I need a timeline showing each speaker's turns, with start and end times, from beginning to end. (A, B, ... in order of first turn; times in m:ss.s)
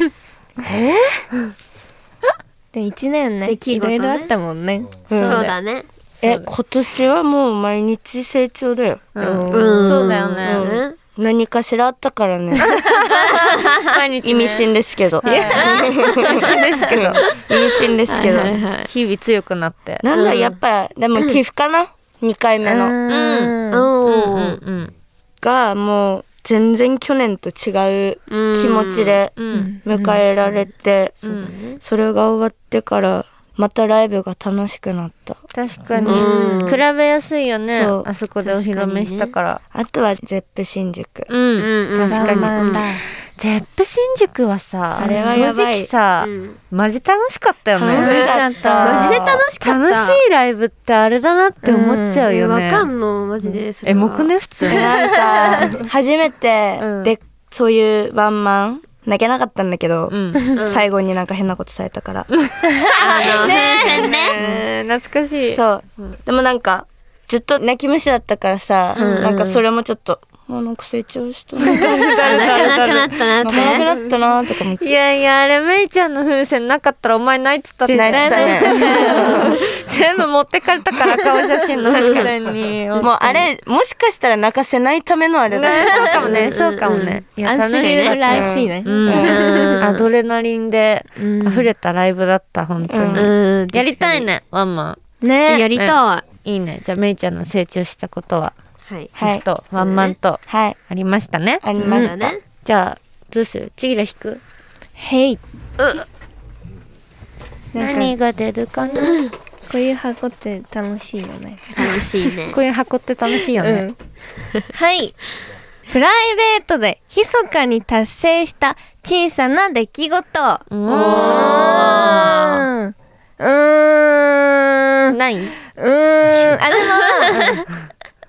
0:00.6-0:01.2 A
0:02.7-0:05.1 B
0:03.4-0:04.3 C
0:05.1-0:05.4 A
0:05.1-0:05.5 D
0:05.1-0:05.9 C
0:06.2-0:09.0 A
0:06.2-0:06.5 D
0:09.1-0:10.8 D
0:09.2-0:10.1 B
0:09.5-0:11.0 C
0:10.4-0:12.8 A
0:12.7-0:17.3 D
0:14.2-0:18.6 A
0:15.2-0:15.9 B
0:15.6-0:16.6 C
0:17.3-0:18.9 C
0:18.9-0:20.0 D
0:20.0-0:23.0 A
0:20.1-0:20.6 C
0:22.6-0:23.9 B
0:23.1-0:24.9 D
0:23.7-0:24.6 C
0:25.4-0:35.4 A
0:28.3-0:29.2 C
0:29.4-0:29.7 D
0:29.5-0:30.2 B
0:31.2-0:31.5 D
0:31.3-0:31.8 C
0:35.5-0:39.6 D
0:36.0-0:36.6 B
0:36.0-0:36.8 C
0:37.7-0:38.1 A
0:38.4-0:39.3 C
0:39.7-0:41.3 A
0:41.3-0:42.8 D
0:41.6-0:42.9 C
0:42.1-0:43.0 B
0:43.4-0:52.9 D
0:45.0-0:45.4 B
0:45.0-0:45.9 A
0:46.2-0:46.6 C
0:47.8-0:49.3 A
0:47.9-0:49.2 B
0:48.0-0:50.2 C
0:51.6-0:52.2 B
0:52.2-0:54.3 C
0:53.8-0:54.9 D
0:54.6-1:02.3 A
0:54.8-0:55.6 B
0:55.4-0:55.7 D
0:56.8-0:57.1 D
1:00.1-1:00.4 D
1:00.6-1:00.9 C
1:02.8-1:04.1 B
1:02.9-1:06.2 D
1:03.0-1:04.4 C
1:04.3-1:04.6 A
1:05.5-1:12.9 A
1:09.0-1:09.4 D
1:09.0-1:09.6 C
1:11.6-1:13.8 D
1:12.2-1:13.9 C
1:13.4-1:14.8 A
1:14.8-1:23.4 D
1:17.8-1:19.6 B
1:17.9-1:19.5 A
1:21.9-1:22.3 C
1:23.0-1:26.5 A
1:25.5-1:35.0 D
1:26.3-1:27.2 C
1:27.4-1:29.8 B
1:27.8-1:28.1 C
1:28.2-1:29.4 A
1:29.1-1:30.0 C
1:31.2-1:31.7 B
1:32.9-1:33.3 A
1:33.1-1:34.3 C
1:35.2-1:35.7 B
1:35.5-1:36.2 C
1:35.8-1:38.5 D
1:38.8-1:39.1 C
1:39.1-1:39.4 A
1:39.2-1:42.0 D
1:39.7-1:40.1 C
1:40.5-1:40.8 A
1:41.6-1:42.3 A
1:41.8-1:42.4 C
1:42.6-1:44.4 D
1:45.0-1:45.4 B
1:45.8-1:46.0 D
1:47.7-1:48.1 B
1:47.7-1:49.3 D
1:49.7-1:52.1 B
1:51.8-1:52.6 C
1:52.5-1:53.8 D
1:53.6-1:53.9 B
1:54.7-1:55.2 B
1:55.9-2:05.1 B
2:00.7-2:02.3 D
2:00.9-2:02.7 C
2:05.1-2:05.5 D
2:05.8-2:07.6 B
2:07.0-2:07.6 C